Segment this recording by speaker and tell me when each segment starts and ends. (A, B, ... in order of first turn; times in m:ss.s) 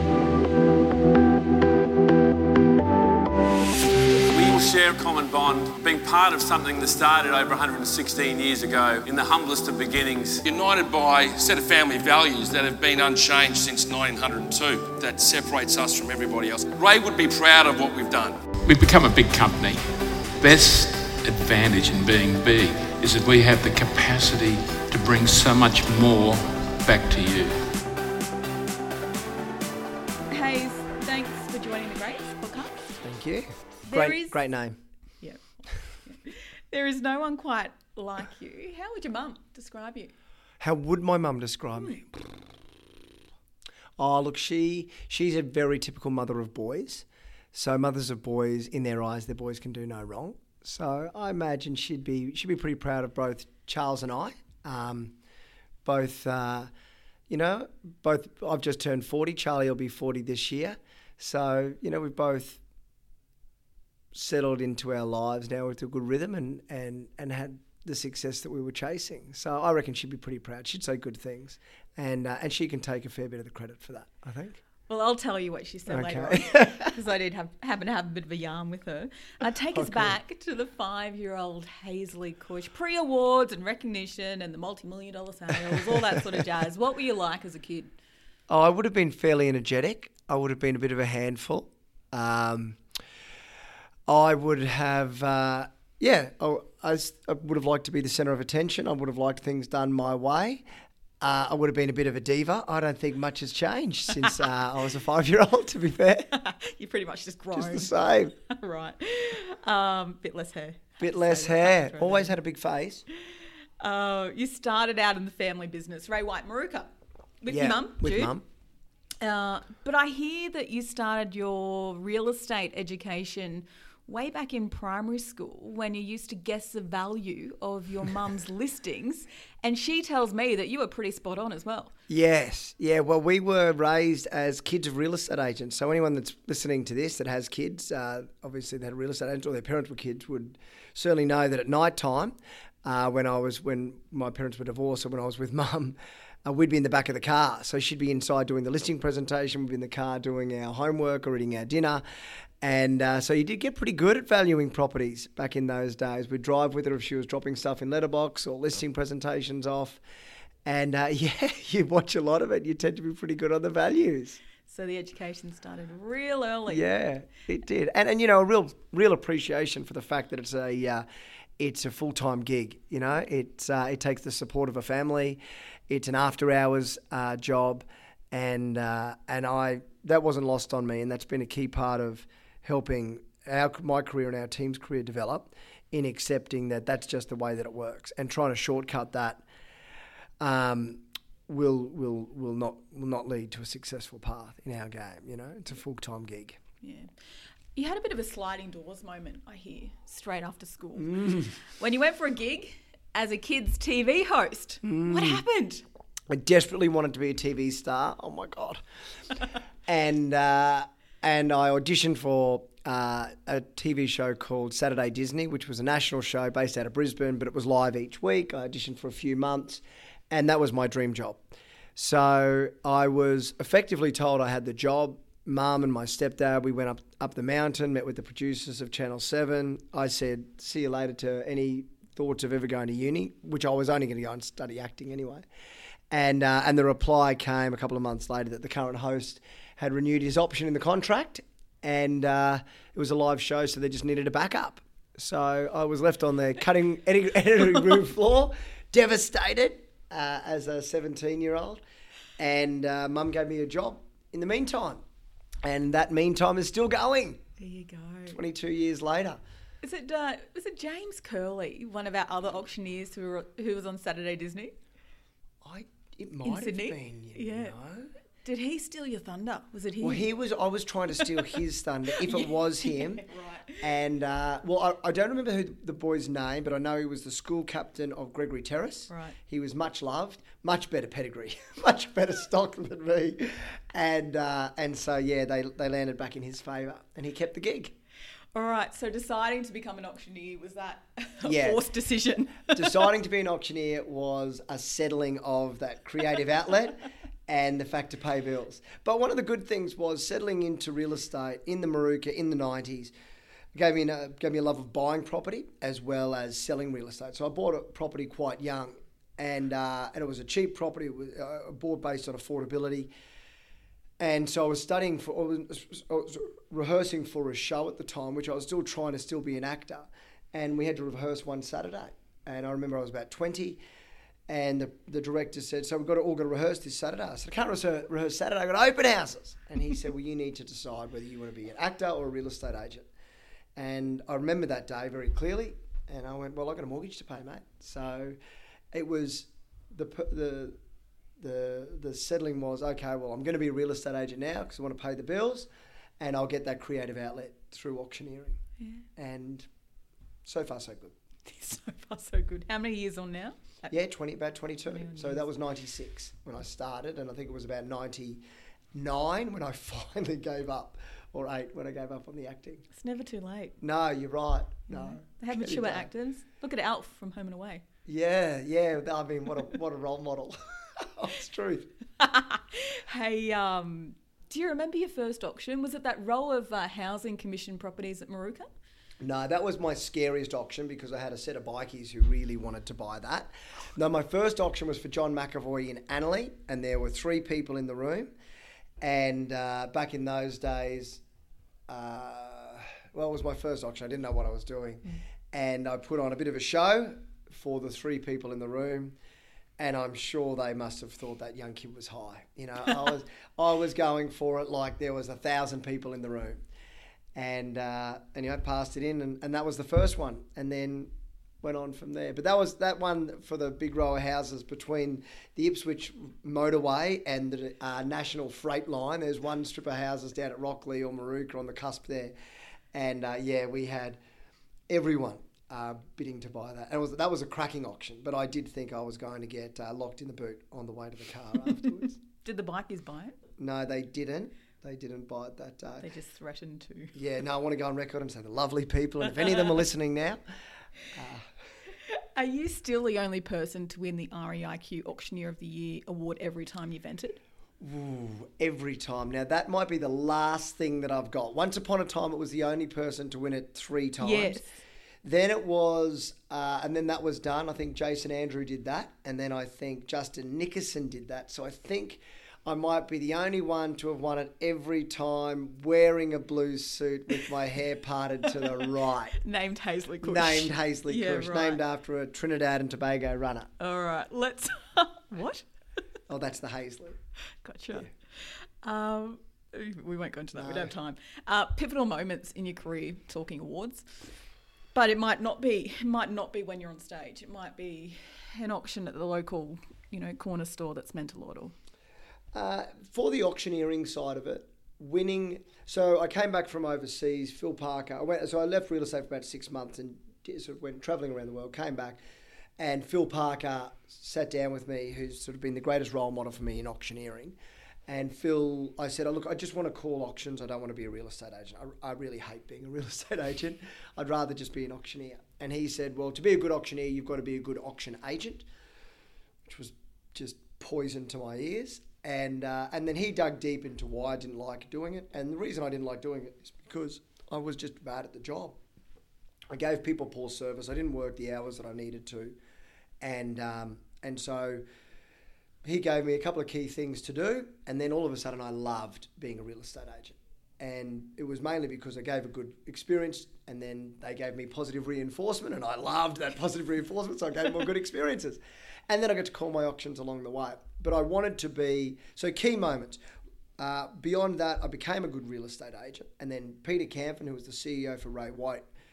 0:04.3-0:10.4 A
0:10.4-0:18.4 B
0:18.6-0:19.8 C
0:20.4-0:27.6 C
0:30.3-0:32.8 D
0:33.0-0:34.8 E
0:33.9-0:34.4 D
0:35.2-0:40.1 D
0:40.6-0:42.3 E
0:44.0-0:55.1 E
0:55.8-0:56.7 E
0:57.3-1:02.6 E
1:04.1-1:14.6 E
1:14.9-1:27.9 D
1:15.9-1:16.9 E
1:19.7-1:20.1 E
1:28.5-1:32.8 E
1:34.1-1:40.6 E
1:41.2-1:46.3 E
1:46.3-1:52.3 D
1:47.5-1:48.3 E
1:51.0-1:53.0 E
1:53.8-1:58.3 D
1:57.5-1:58.4 E
1:59.2-2:11.9 D
2:12.1-2:32.0 E
2:32.6-2:40.0 E
2:40.6-2:44.4 E
2:44.6-2:46.9 D
2:46.7-2:51.0 E
2:51.6-3:09.4 E
3:10.4-3:16.6 E
3:16.8-3:17.1 D
3:17.7-3:25.8 D
3:21.0-3:21.5 E
3:24.8-3:25.4 E
3:26.3-3:28.8 E
3:29.9-3:55.4 E
3:56.1-4:11.8 E
4:12.4-4:15.0 E
4:15.6-4:17.4 E
4:17.6-4:18.4 D
4:18.3-4:19.4 E
4:19.8-4:24.8 D
4:25.6-4:28.1 E
4:26.4-4:27.7 D
4:28.4-4:30.2 D
4:30.0-4:33.2 E
4:32.2-4:33.8 D
4:33.8-4:47.9 E
4:39.1-4:39.4 D
4:48.5-4:53.1 D
4:51.4-4:51.9 E
4:52.5-5:03.1 E
5:03.7-5:13.1 E
5:14.2-5:23.8 E
5:24.5-5:33.1 E
5:33.8-5:38.4 E
5:38.9-5:40.8 E
5:41.4-5:45.7 E
5:46.2-5:48.6 E
5:49.2-5:49.7 E
5:50.4-5:51.1 E
5:51.4-5:53.9 D
5:53.9-5:58.4 E
5:54.9-5:55.4 D
5:58.9-6:02.8 E
6:02.9-6:03.8 D
6:03.8-6:06.1 E
6:04.9-6:07.8 D
6:08.0-6:11.9 E
6:12.2-6:18.7 D
6:19.2-6:28.3 E
6:29.0-6:31.2 E
6:31.9-6:39.2 E
6:39.8-6:46.6 E
6:47.3-7:02.3 E
7:02.9-7:04.2 E
7:04.9-7:12.2 E
7:12.4-7:13.4 D
7:13.6-7:16.1 E
7:16.0-7:17.1 D
7:17.1-7:20.4 E
7:21.1-7:21.5 E
7:22.1-7:27.4 D
7:27.8-7:34.6 E
7:34.2-7:34.8 D
7:35.2-7:49.4 E
7:49.4-7:51.8 D
7:50.2-7:53.7 E
7:53.8-7:55.6 D
7:56.3-7:57.2 E
7:57.6-8:04.1 D
8:00.6-8:00.9 E
8:04.9-8:11.7 D
8:12.5-8:22.2 E
8:22.8-8:27.6 E
8:28.1-8:38.6 E
8:39.6-8:48.8 E
8:49.7-8:52.6 E
8:53.2-8:54.8 E
8:55.8-9:13.2 E
9:13.8-9:18.8 E